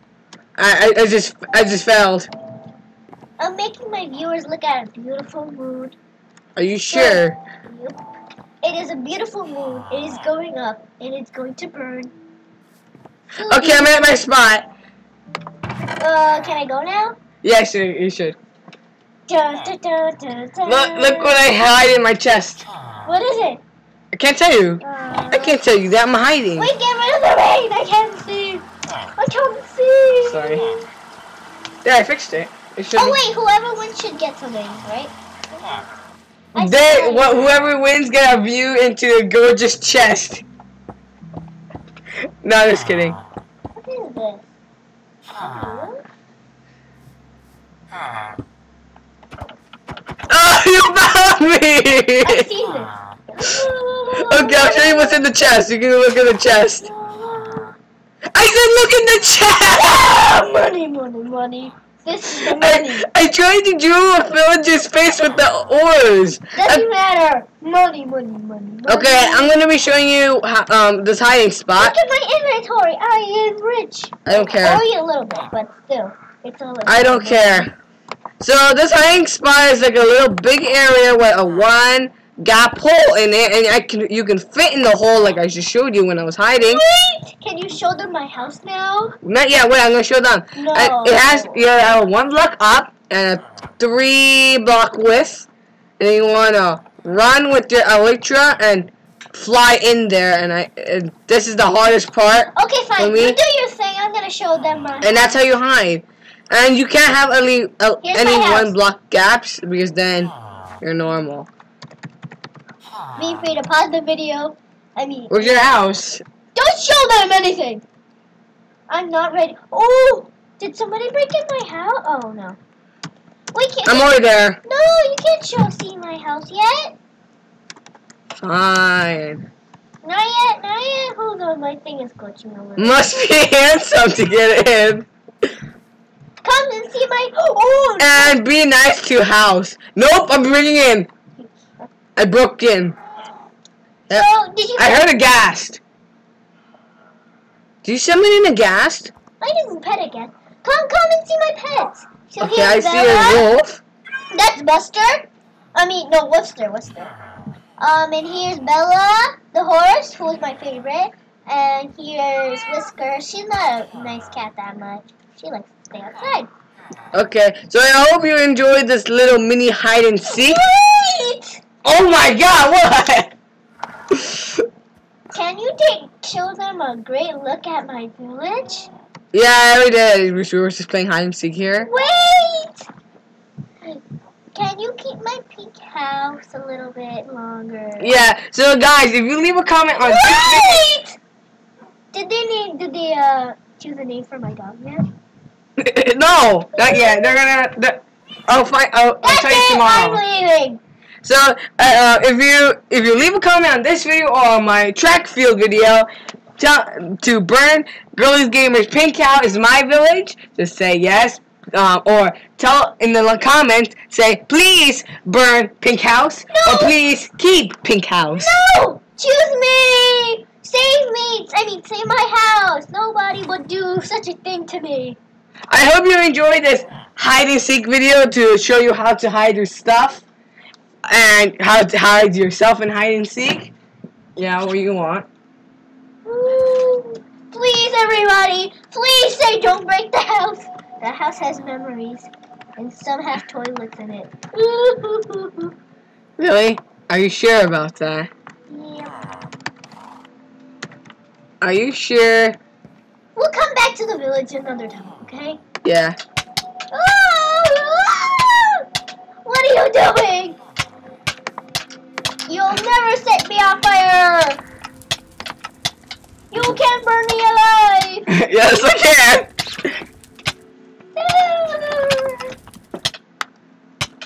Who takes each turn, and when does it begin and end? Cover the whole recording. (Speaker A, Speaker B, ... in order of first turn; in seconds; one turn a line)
Speaker A: 0.6-2.3
Speaker B: 3.4-6.0
Speaker A: 6.6-7.4
Speaker B: 6.9-8.0
Speaker B: 8.6-12.1
Speaker B: 13.4-14.2
Speaker A: 13.5-14.7
Speaker B: 16.0-17.2
Speaker A: 17.4-18.4
Speaker B: 19.3-21.4
Speaker A: 20.7-22.7
Speaker B: 23.1-23.6
Speaker A: 24.1-26.7
Speaker B: 24.8-25.6
Speaker B: 26.6-30.8
Speaker A: 30.2-30.6
Speaker A: 31.8-33.2
Speaker B: 32.9-35.1
Speaker B: 36.5-37.5
Speaker A: 36.6-40.4
Speaker A: 42.4-43.2
Speaker B: 43.8-44.5
Speaker B: 45.4-46.0
Speaker A: 50.3-52.5
Speaker B: 52.2-55.2
Speaker A: 54.2-56.9
Speaker B: 56.8-57.7
Speaker A: 58.3-60.0
Speaker B: 59.7-63.1
Speaker A: 62.3-66.8
Speaker B: 66.5-69.5
Speaker A: 68.9-72.0
Speaker B: 71.8-77.7
Speaker A: 74.3-74.8
Speaker A: 76.9-77.7
Speaker A: 78.4-86.8
Speaker B: 86.6-89.2
Speaker A: 89.2-95.5
Speaker B: 90.5-91.6
Speaker A: 96.0-103.4
Speaker B: 102.5-105.4
Speaker A: 105.0-111.5
Speaker B: 108.0-108.8
Speaker B: 113.2-115.7
Speaker A: 115.3-116.2
Speaker B: 116.5-117.8
Speaker B: 118.9-122.6
Speaker B: 123.5-127.0
Speaker A: 123.9-124.6
Speaker A: 128.4-129.5
Speaker B: 130.0-133.3
Speaker A: 132.8-135.1
Speaker B: 136.4-138.4
Speaker A: 138.0-141.1
Speaker A: 142.2-143.0
Speaker A: 144.1-145.8
Speaker B: 144.1-145.1
Speaker A: 147.8-149.1
Speaker B: 149.4-153.5
Speaker A: 152.4-153.8
Speaker B: 154.3-157.1
Speaker B: 157.8-166.5
Speaker A: 167.1-170.6
Speaker B: 170.3-171.6
Speaker A: 171.8-173.3
Speaker B: 175.3-178.9
Speaker A: 179.3-181.9
Speaker B: 181.8-182.9
Speaker B: 184.5-188.3
Speaker A: 188.0-190.9
Speaker B: 190.0-191.2
Speaker B: 192.1-195.1
Speaker A: 195.8-200.2
Speaker B: 196.8-197.3
Speaker B: 199.2-200.8
Speaker A: 201.2-218.6
Speaker B: 216.5-216.9
Speaker B: 218.3-225.2
Speaker A: 225.7-230.2
Speaker A: 231.1-233.7
Speaker A: 234.4-235.3
Speaker B: 236.3-245.7
Speaker A: 246.4-248.3
Speaker B: 248.7-249.2
Speaker A: 251.6-252.6
Speaker B: 253.4-255.6
Speaker A: 255.8-256.2
Speaker B: 256.9-258.9
Speaker B: 259.4-260.6
Speaker B: 262.5-264.6
Speaker B: 266.5-268.3
Speaker A: 268.3-269.5
Speaker B: 271.2-272.5